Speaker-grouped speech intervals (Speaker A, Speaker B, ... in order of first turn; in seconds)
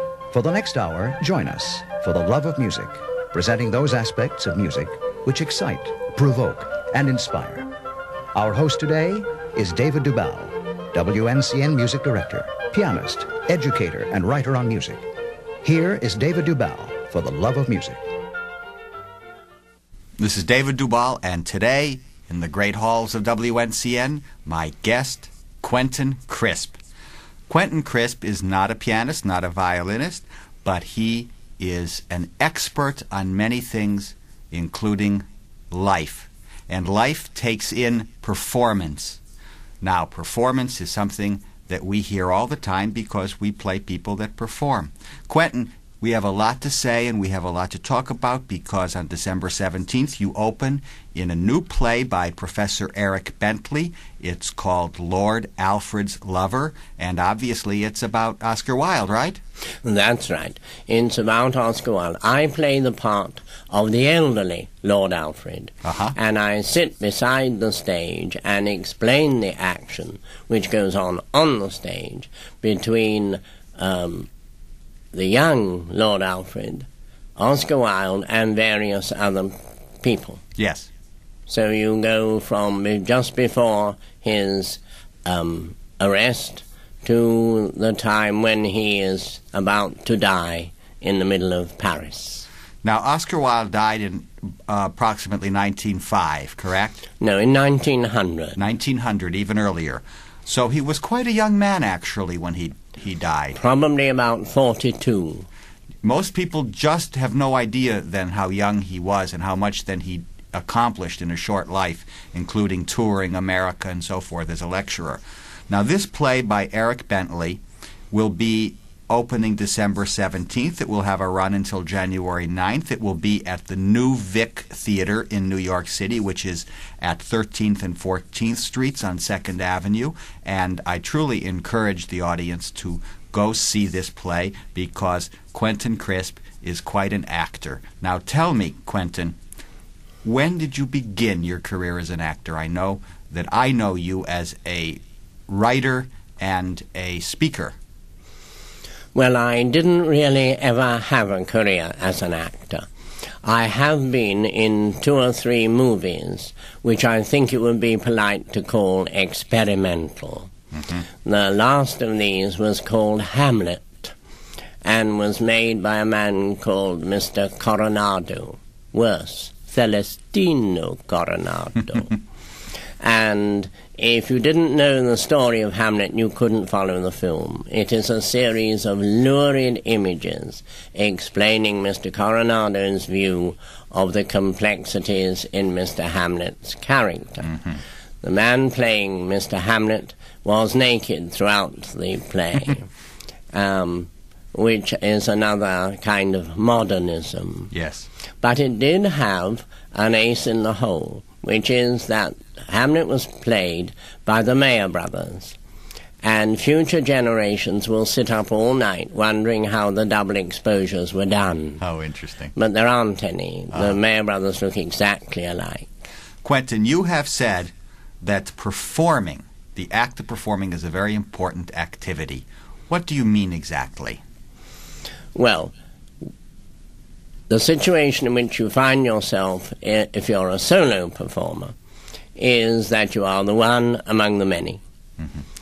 Speaker A: 0.3-7.7, 8.3-15.0, 15.6-18.0
Speaker B: 20.2-26.8, 27.5-39.2, 39.8-59.4, 65.8-66.1, 80.6-80.9, 92.8-97.0, 98.6-103.6, 106.0-139.3, 140.2-147.7, 197.7-198.1, 211.8-212.5, 216.4-224.2
Speaker C: 59.8-74.3, 75.1-80.4, 81.5-92.5, 97.2-98.6, 103.5-105.5, 149.1-152.9, 153.4-160.5, 161.2-164.1, 164.8-172.2, 173.0-187.6, 188.2-192.9, 193.5-197.7, 198.4-205.6, 206.2-211.8, 212.6-216.0, 225.3-225.7, 227.5-231.7, 232.3-234.8